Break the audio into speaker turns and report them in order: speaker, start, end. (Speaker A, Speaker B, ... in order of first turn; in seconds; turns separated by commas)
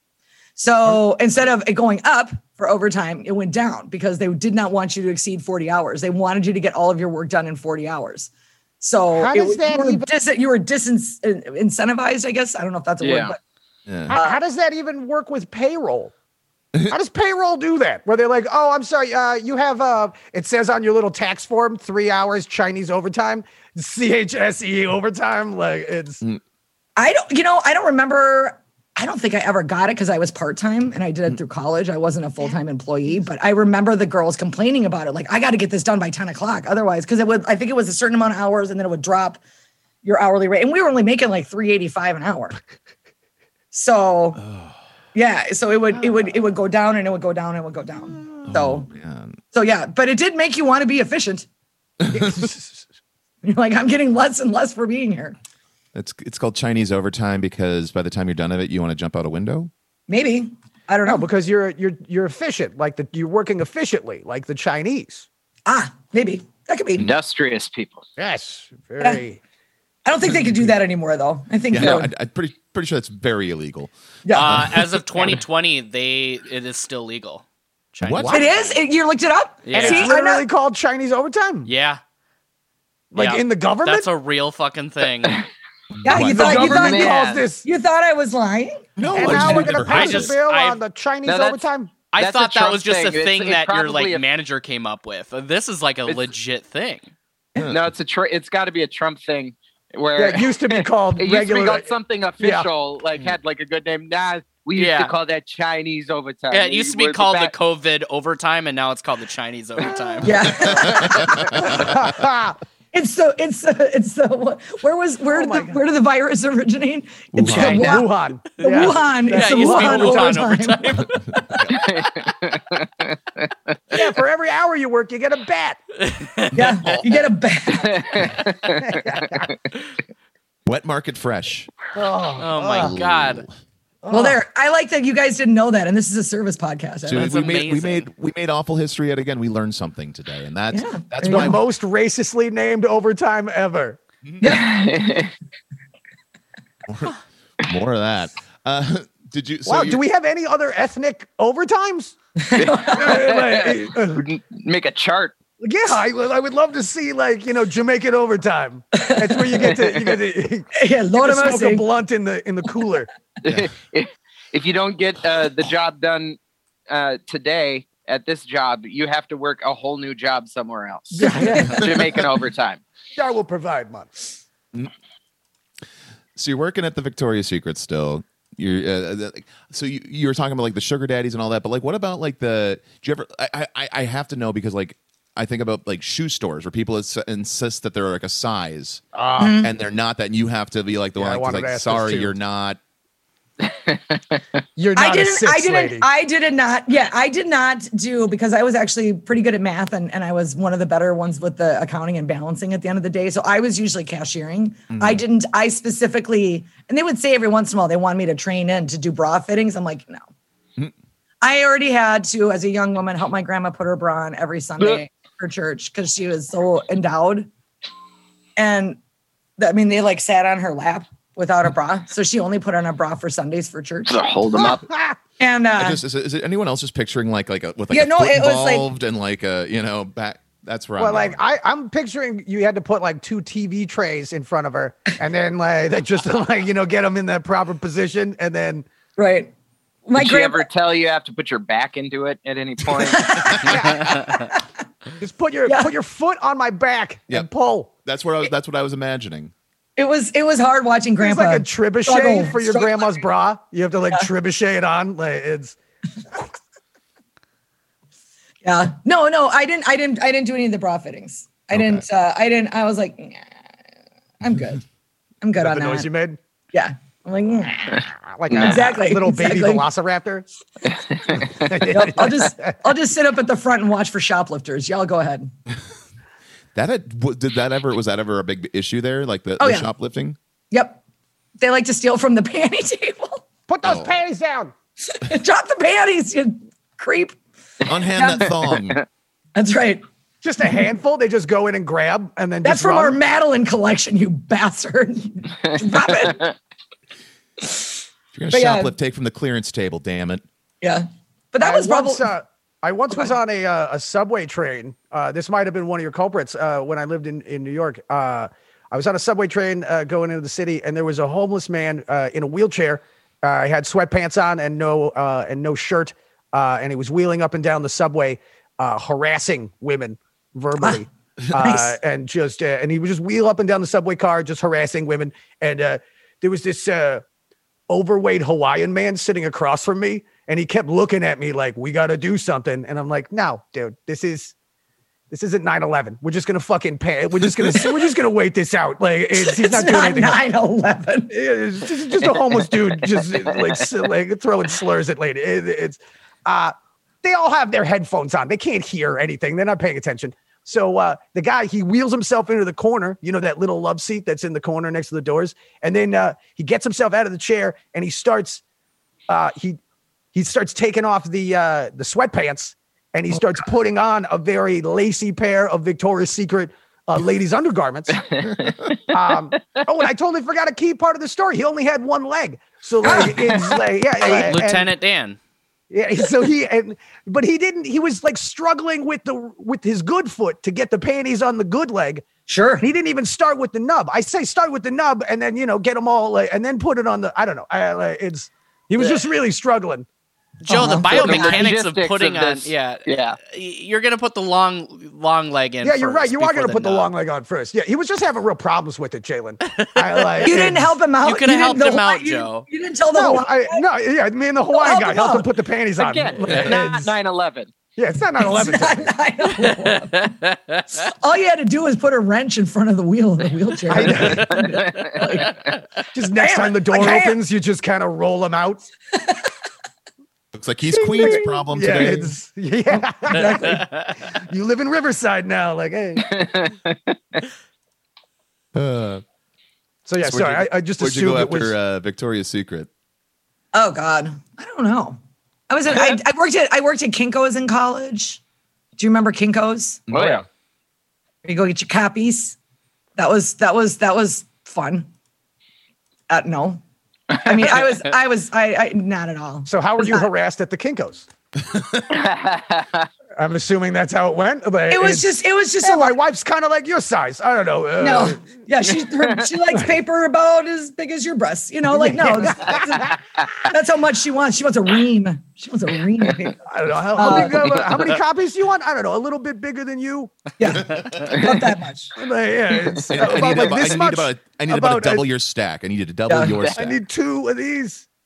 Speaker A: 0.6-13.4, Speaker B: 9.1-10.1, Speaker C: 13.0-13.3, Speaker D: 13.9-14.1, Speaker B: 14.1-16.1, Speaker A: 14.1-14.4, Speaker B: 16.9-26.2, Speaker A: 27.0-39.4, Speaker A: 40.0-42.6, Speaker A: 43.7-44.4, Speaker A: 45.1-48.9, Speaker D: 48.5-49.4, Speaker A: 49.5-51.5, Speaker B: 52.1-52.8, Speaker A: 53.4-55.3, Speaker D: 55.9-59.7, Speaker A: 60.1-61.2, Speaker B: 61.0-65.2, Speaker A: 65.7-67.1, Speaker C: 67.0-68.1, Speaker B: 68.2-69.4, Speaker A: 70.0-72.1, Speaker D: 71.7-74.9, Speaker A: 74.2-74.5, Speaker E: 74.3-77.4, Speaker E: 78.0-78.7, Speaker D: 78.0-78.4, Speaker B: 78.1-78.5, Speaker A: 78.3-80.4, Speaker E: 79.7-80.1, Speaker B: 79.7-81.7, Speaker E: 81.7-82.0, Speaker B: 83.1-84.1, Speaker E: 83.1-85.4, Speaker D: 86.0-86.7, Speaker A: 86.0-88.8, Speaker B: 86.1-87.7, Speaker C: 86.6-87.4, Speaker D: 89.0-90.3, Speaker B: 89.1-91.9, Speaker E: 89.2-90.8, Speaker C: 91.2-91.6, Speaker E: 92.1-97.1, Speaker C: 92.2-94.2, Speaker C: 96.0-96.3, Speaker D: 97.6-97.8, Speaker C: 97.7-107.5, Speaker B: 100.2-102.7, Speaker E: 104.7-105.1, Speaker E: 106.5-111.0, Speaker A: 110.2-111.6, Speaker B: 111.5-112.5, Speaker A: 112.9-121.6, Speaker B: 115.3-115.8, Speaker D: 117.3-118.0, Speaker B: 117.3-120.4, Speaker E: 118.7-121.2, Speaker C: 121.7-123.5, Speaker B: 123.9-125.8, Speaker E: 126.0-127.0, Speaker A: 126.5-128.2, Speaker C: 127.8-129.5, Speaker B: 128.8-129.5, Speaker D: 130.7-131.7, Speaker B: 131.9-133.0, Speaker E: 132.4-133.4, Speaker D: 132.7-133.5, Speaker B: 134.0-134.4, Speaker A: 134.1-137.3, Speaker D: 137.1-141.6, Speaker E: 137.1-138.1, Speaker A: 140.7-141.6, Speaker B: 141.2-144.0, Speaker A: 144.4-144.8, Speaker C: 144.4-145.3, Speaker D: 146.9-150.0, Speaker B: 149.7-152.1, Speaker A: 152.4-153.2, Speaker C: 152.6-155.3, Speaker B: 152.8-154.2, Speaker B: 155.6-163.1, Speaker A: 159.0-159.2, Speaker C: 159.8-160.2, Speaker A: 160.7-161.8, Speaker C: 163.4-166.4, Speaker C: 166.9-172.8, Speaker B: 171.1-172.1, Speaker B: 173.1-174.3, Speaker D: 176.3-189.0, Speaker B: 189.1-189.6, Speaker A: 189.4-189.7, Speaker D: 189.6-192.8, Speaker B: 191.2-192.3, Speaker C: 193.6-194.4, Speaker B: 194.8-196.1, Speaker A: 194.9-210.2, Speaker D: 204.9-205.2, Speaker A: 211.4-217.5, Speaker A: 218.6-219.0, Speaker A: 219.6-224.2, Speaker C: 224.1-224.9, Speaker B: 224.7-225.2, Speaker A: 225.4-226.0, Speaker D: 225.8-231.4, Speaker A: 227.9-228.9, Speaker B: 231.0-238.8, Speaker A: 239.2-239.5, Speaker A: 240.1-240.7, Speaker C: 240.1-243.6, Speaker A: 243.1-243.7, Speaker B: 243.6-244.2, Speaker A: 244.3-244.6, Speaker B: 245.2-247.9, Speaker D: 248.0-249.5, Speaker A: 250.0-253.1, Speaker B: 251.2-255.8, Speaker A: 258.6-263.5, Speaker D: 261.8-262.0, Speaker A: 264.4-264.8, Speaker A: 265.4-266.1, Speaker B: 265.6-266.4, Speaker A: 266.7-268.0, Speaker B: 268.2-270.5, Speaker A: 268.5-269.9, Speaker C: 271.1-271.6, Speaker B: 271.6-272.7, Speaker A: 271.9-275.5, Speaker D: 276.7-280.4, Speaker A: 279.6-279.9, Speaker A: 280.7-281.0, Speaker A: 281.6-283.4, Speaker B: 283.7-284.7, Speaker D: 283.8-284.1, Speaker A: 285.1-287.4, Speaker D: 287.9-289.0, Speaker A: 288.1-288.5, Speaker A: 289.6-290.0, Speaker B: 290.4-293.2, Speaker A: 292.6-296.4, Speaker D: 298.3-300.4, Speaker A: 298.5-298.9, Speaker A: 300.8-302.3, Speaker B: 301.6-327.2, Speaker A: 320.8-321.0, Speaker A: 321.6-321.9, Speaker B: 327.9-334.5, Speaker B: 335.3-340.4, Speaker A: 339.4-341.3, Speaker B: 341.3-358.6, Speaker B: 359.3-359.8, Speaker B: 360.3-368.2, Speaker C: 368.3-368.9, Speaker B: 369.1-374.9, Speaker A: 373.0-373.6, Speaker E: 374.2-375.4, Speaker B: 375.9-382.2, Speaker A: 382.5-382.9, Speaker B: 382.8-390.1, Speaker E: 390.6-397.1, Speaker A: 390.7-391.1, Speaker B: 390.7-391.6, Speaker C: 391.1-393.4, Speaker B: 395.8-400.9, Speaker E: 399.7-400.5, Speaker A: 400.4-403.8, Speaker E: 401.2-402.7, Speaker B: 403.1-407.1, Speaker A: 404.7-405.5, Speaker C: 406.0-407.7, Speaker B: 408.0-409.1, Speaker A: 408.4-410.3, Speaker E: 409.6-410.8, Speaker A: 411.0-415.5, Speaker B: 413.9-414.5, Speaker B: 416.1-418.8, Speaker A: 416.4-417.4, Speaker D: 420.5-422.3, Speaker B: 420.9-426.4, Speaker A: 423.3-423.8, Speaker C: 426.2-427.4, Speaker D: 428.7-429.2, Speaker B: 430.1-431.7, Speaker D: 430.2-432.9, Speaker A: 433.7-435.2, Speaker A: 435.7-438.4, Speaker A: 439.0-440.0, Speaker B: 440.1-440.4, Speaker C: 440.1-440.4, Speaker A: 441.4-442.6, Speaker A: 443.2-445.1, Speaker A: 446.3-446.8, Speaker A: 447.4-450.3, Speaker B: 449.6-451.3, Speaker C: 452.1-453.1, Speaker B: 453.4-458.4, Speaker A: 454.9-456.2, Speaker A: 458.0-463.1, Speaker B: 461.9-463.1, Speaker A: 463.6-466.6, Speaker B: 466.6-470.4, Speaker A: 467.1-467.7, Speaker A: 470.6-472.1, Speaker B: 472.1-475.3, Speaker C: 472.9-473.8, Speaker D: 473.1-477.0, Speaker A: 476.3-476.5, Speaker B: 476.6-478.0